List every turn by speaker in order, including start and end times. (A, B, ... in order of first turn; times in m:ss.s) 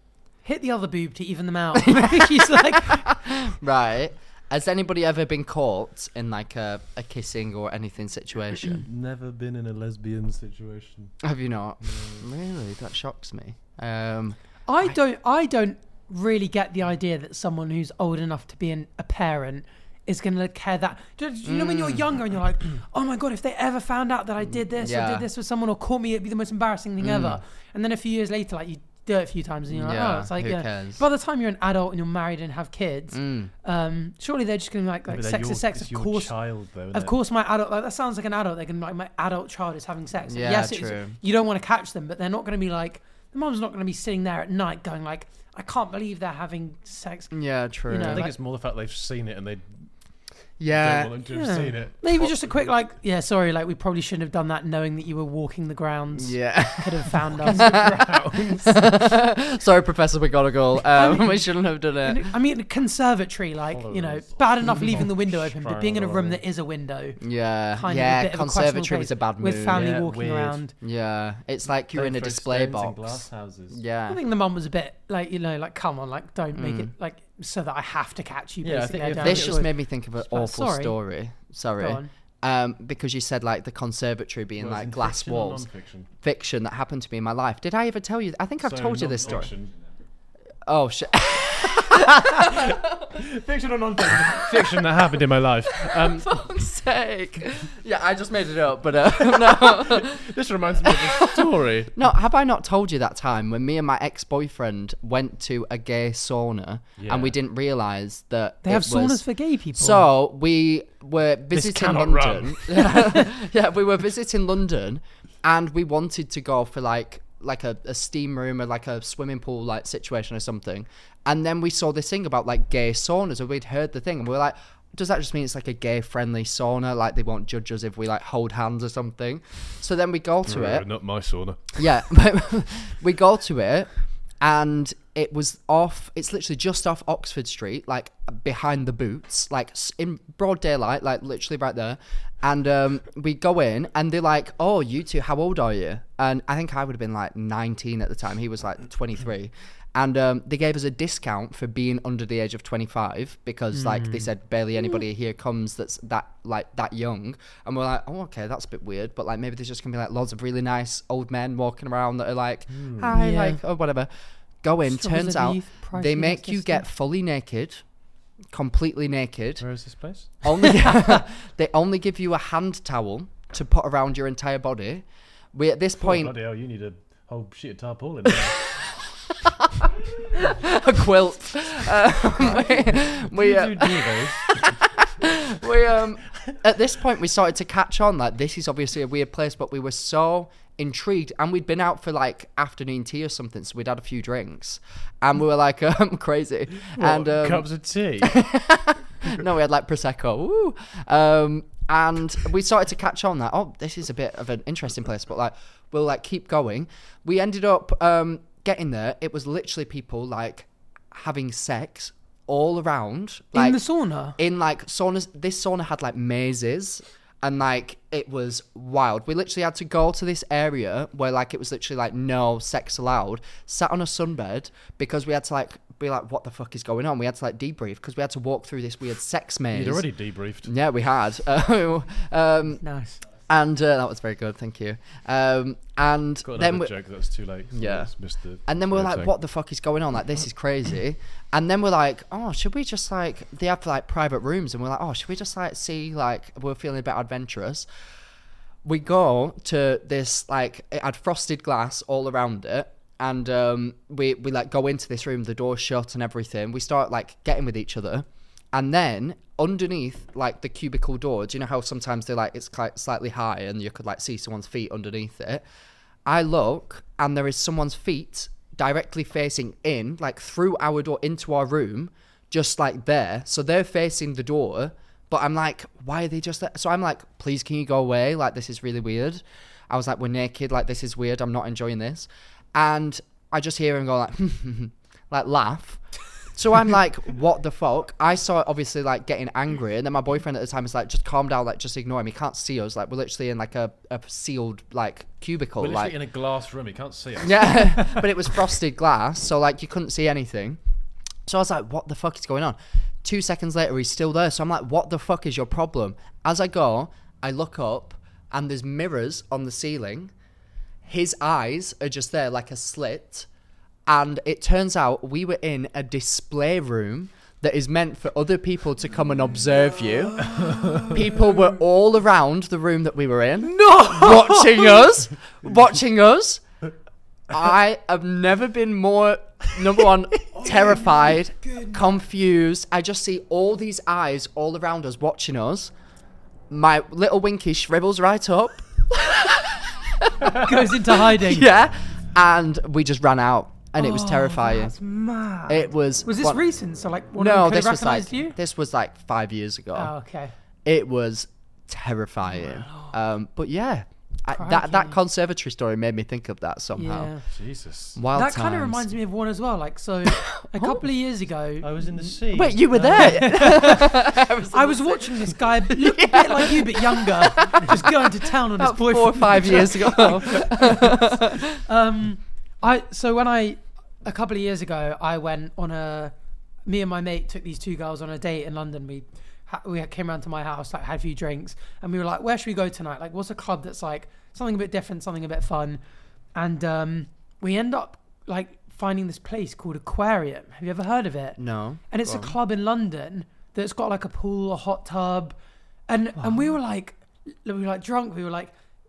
0:00.4-0:03.1 A
0:01.8-0:08.8 B
0:08.8-0:11.1 C
0:11.2-0:15.0 B
0:14.7-0:36.3 A
0:21.4-0:22.1 B
0:24.5-0:25.3 B
0:27.0-0:27.4 B
0:29.7-0:31.0 B
0:33.1-0:33.5 B
0:35.1-0:37.2 C
0:36.9-0:47.3 A
0:40.2-0:41.2 B
0:47.3-0:48.3 B
0:47.9-0:48.3 A
0:48.0-0:49.6 C
0:50.6-0:51.2 B
0:50.7-0:52.2 C
0:51.3-0:57.7 A
0:56.2-0:58.0 B
0:57.4-0:58.8 C
0:58.6-1:02.3 B
1:00.9-1:01.4 A
1:02.0-1:07.2 A
1:03.7-1:06.4 C
1:07.2-1:10.0 B
1:07.8-1:10.7 A
1:09.7-1:10.6 C
1:10.8-1:14.2 B
1:11.9-1:13.8 C
1:14.1-1:21.0 A
1:16.5-1:16.9 B
1:18.6-1:19.6 C
1:19.2-1:25.6 B
1:21.8-1:22.1 A
1:24.6-1:26.1 C
1:26.2-1:29.5 B
1:28.6-1:29.7 C
1:30.7-1:32.8 B
1:32.1-1:36.3 C
1:34.3-1:34.7 B
1:35.8-1:40.3 B
1:39.2-1:42.0 C
1:40.8-1:49.2 B
1:47.0-1:47.4 C
1:48.6-1:50.0 A
1:49.8-2:10.8 B
1:51.5-1:53.0 C
2:10.4-2:11.8 C
2:11.8-2:13.9 B
2:14.4-2:44.1 B
2:33.7-2:34.3 A
2:42.7-2:43.1 C
2:43.0-2:43.6 A
2:44.6-2:47.8 B
2:44.8-2:46.8 A
2:48.5-2:49.6 B
2:49.6-2:50.4 C
2:50.4-2:56.3 B
2:56.0-2:58.7 C
2:59.4-2:59.7 B
3:00.4-3:17.7 B
3:02.5-3:04.8 C
3:16.9-3:18.4 C
3:18.2-3:33.8 B
3:33.5-3:34.4 A
3:34.4-3:50.0 B
3:49.7-3:50.7 C
3:50.6-3:52.8 B
3:52.8-3:53.2 A
3:53.5-3:56.9 B
3:56.4-3:59.3 C
3:57.7-3:58.1 B
3:58.7-4:07.9 B
4:08.8-4:25.6 B
4:26.2-4:46.0 B
4:46.5-4:56.1 B
4:55.8-4:58.2 C
4:57.4-5:00.8 B
5:01.5-5:10.3 B
5:11.0-5:13.5 B
5:14.1-5:26.6 B
5:20.5-5:21.1 C
5:27.5-5:35.9 B
5:36.7-5:44.9 B
5:40.5-5:41.7 A
5:44.0-5:48.6 A
5:45.7-5:46.6 B
5:47.3-5:50.1 B
5:49.9-5:50.5 A
5:50.8-5:57.3 B
5:52.6-5:53.2 A
5:54.5-5:55.2 A
5:57.0-5:57.4 A
5:57.5-5:58.2 C
5:58.2-5:59.1 B
5:58.3-6:01.9 A
6:00.3-6:01.0 B
6:01.8-6:03.8 C
6:02.5-6:11.8 B
6:03.0-6:16.3 A
6:16.8-6:26.0 A
6:26.5-6:31.6 A
6:31.6-6:32.5 B
6:32.1-6:35.6 A
6:36.1-6:38.7 A
6:36.4-6:36.7 B